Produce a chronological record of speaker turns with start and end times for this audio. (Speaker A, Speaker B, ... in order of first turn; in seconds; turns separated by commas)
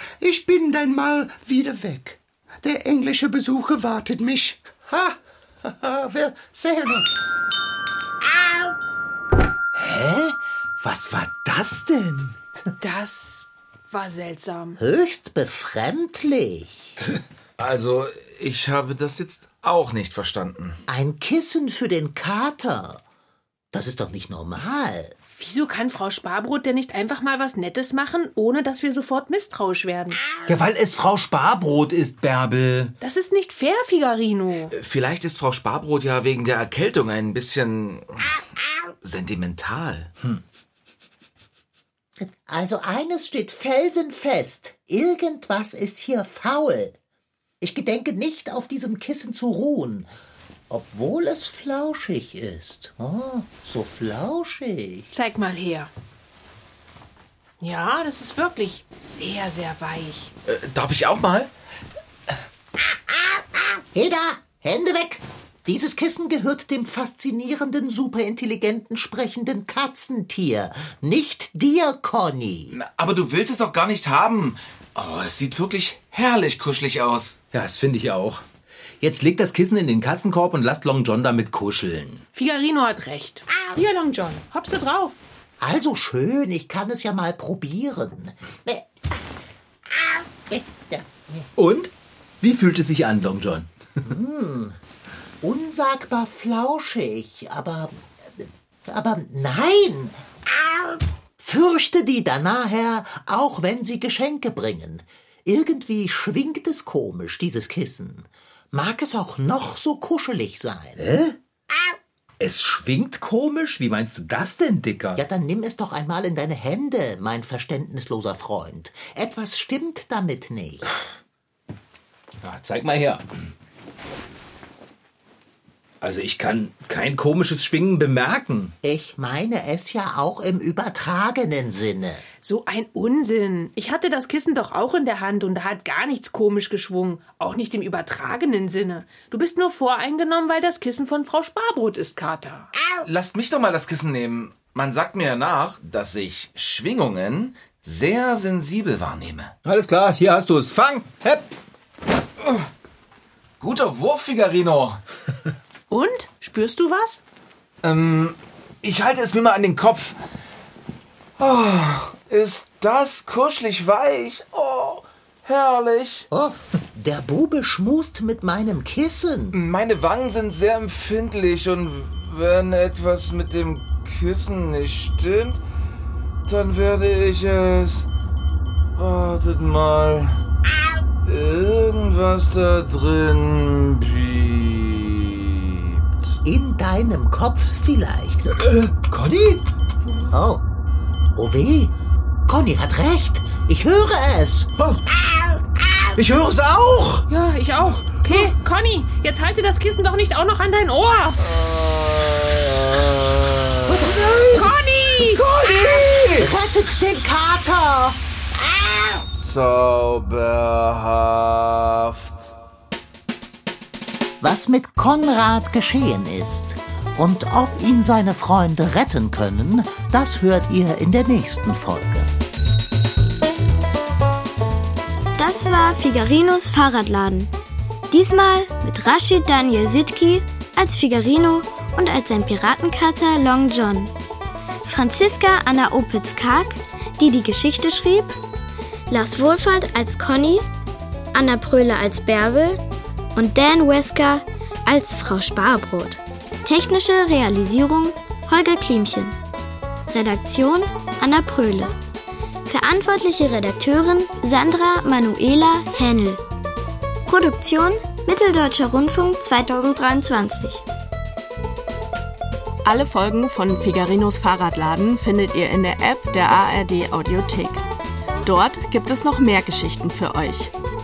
Speaker A: 0.2-7.4, Speaker B: 9.8-12.4, Speaker C: 12.8-14.8, Speaker D: 14.8-16.9, Speaker E: 17.6-20.8, Speaker D: 20.9-23.0, Speaker D: 23.7-25.1, Speaker C: 25.4-30.2, Speaker B: 30.5-32.9, Speaker C: 33.0-34.7, Speaker E: 34.7-38.4, Speaker E: 39.0-40.1, Speaker D: 42.2-46.9, Speaker D: 47.6-50.1, Speaker D: 50.7-55.1, Speaker C: 55.1-55.9, Speaker C: 57.6-60.3, Speaker E: 60.4-61.5, Speaker D: 63.9-72.7, Speaker E: 72.7-77.4, Speaker B: 77.5-78.4, Speaker B: 79.0-82.2, Speaker C: 82.3-85.2, Speaker D: 85.6-89.2, Speaker D: 89.9-91.5, Speaker B: 91.5-93.7, Speaker D: 94.0-94.8, Speaker D: 95.4-100.2, Speaker D: 101.4-111.0, Speaker B: 111.0-111.3, Speaker B: 112.4-115.2, Speaker D: 115.2-120.9, Speaker B: 122.4-123.2, Speaker B: 126.0-128.7, Speaker D: 128.8-132.2, Speaker C: 132.4-142.7, Speaker E: 143.0-149.5, Speaker B: 149.6-151.5, Speaker E: 153.6-155.0, Speaker C: 155.9-157.2, Speaker E: 157.8-160.2, Speaker E: 161.4-166.2, Speaker D: 166.3-169.6, Speaker E: 169.5-175.6, Speaker E: 176.4-178.1, Speaker E: 178.9-180.4, Speaker E: 181.2-186.1, Speaker D: 186.4-188.6, Speaker B: 188.6-189.6, Speaker D: 190.3-190.6, Speaker D: 191.3-191.9, Speaker D: 192.5-194.7, Speaker B: 196.1-197.3, Speaker C: 197.3-201.4, Speaker E: 201.4-204.3, Speaker D: 203.9-204.7, Speaker B: 204.0-204.7, Speaker C: 204.5-205.4, Speaker E: 205.2-206.5, Speaker D: 206.4-208.2, Speaker D: 208.8-209.2, Speaker E: 209.3-212.5, Speaker D: 214.4-222.3, Speaker F: 225.4-227.5, Speaker F: 228.1-234.1, Speaker F: 234.8-238.3, Speaker F: 239.1-240.6, Speaker F: 241.3-242.8, Speaker F: 243.3-249.3, Speaker F: 250.1-251.9, Speaker F: 252.7-256.4, Speaker F: 257.3-260.8, Speaker G: 262.8-267.8, Speaker G: 268.4-270.7